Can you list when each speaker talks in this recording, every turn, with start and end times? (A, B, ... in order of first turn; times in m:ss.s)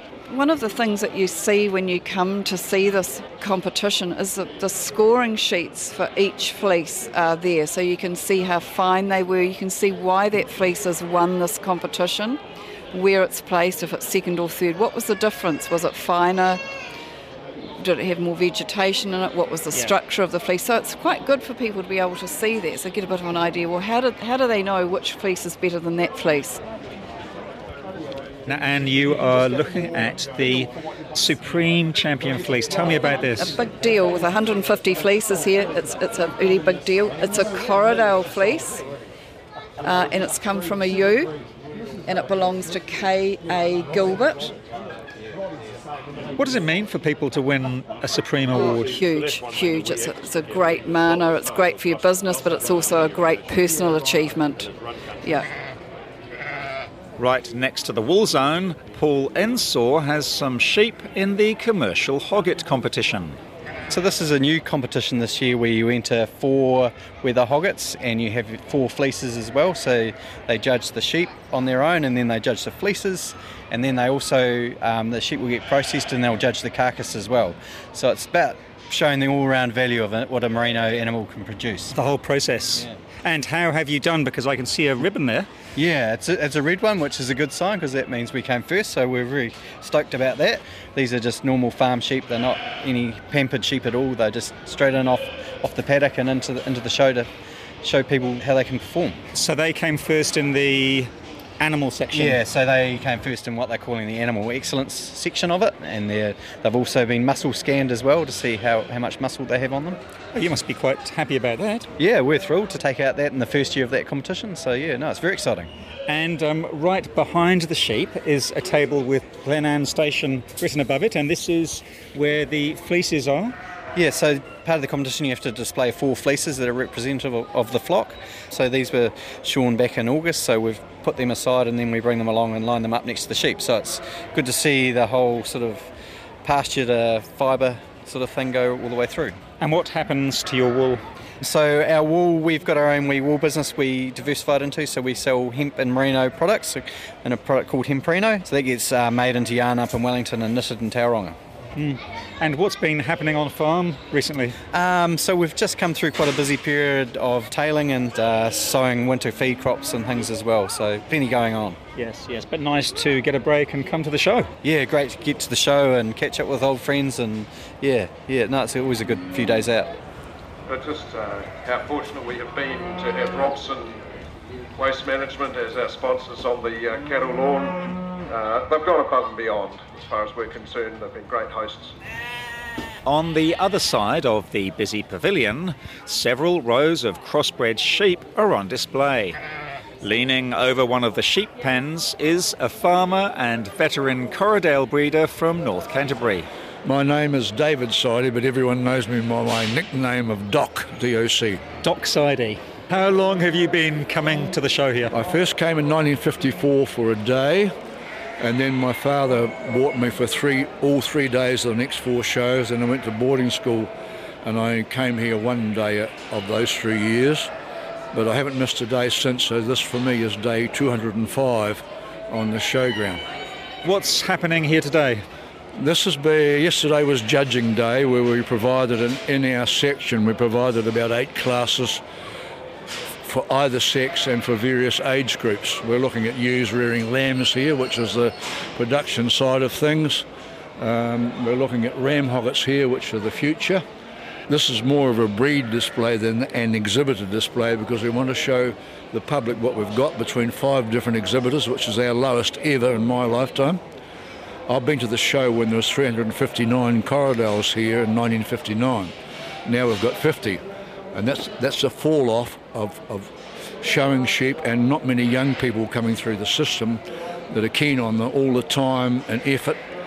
0:00.3-0:12.4 A
0:12.9-0:16.6 A
0:17.8-0:26.6 A
0:28.5-0:33.5 B
0:33.4-0:38.8 A
0:39.8-0:41.3 A
0:42.1-0:44.5 A
0:46.4-0:48.9 B
0:48.5-0:54.7 A
0:55.2-0:55.5 A
0:57.2-1:03.4 B
1:03.9-1:22.0 C
1:21.9-1:25.5 B
1:22.7-1:23.0 C
1:25.8-1:37.3 C
1:37.8-1:39.2 C
1:39.3-1:42.4 B
1:42.1-1:50.0 C
1:50.3-1:51.9 B
1:52.0-1:55.7 C
1:56.1-2:03.6 B
2:04.0-2:15.9 C
2:16.4-2:19.4 C
2:19.6-2:21.0 B
2:21.4-2:31.4 C
2:31.8-2:34.6 B
2:34.7-2:41.8 C
2:42.0-2:44.5 B
2:44.6-2:49.9 C
2:50.7-2:54.0 D
2:54.8-3:02.0 D
3:03.0-3:09.4 B
3:10.0-3:16.5 B
3:16.8-3:21.6 E
3:21.8-3:25.1 B
3:25.1-3:27.7 E
3:28.4-3:33.9 E
3:34.4-3:37.5 E
3:38.1-3:43.2 E
3:43.8-3:45.2 B
3:45.8-3:52.0 E
3:53.2-4:00.3 E
4:00.8-4:03.8 E
4:04.5-4:13.8 E
4:14.7-4:19.1 E
4:19.7-4:29.8 E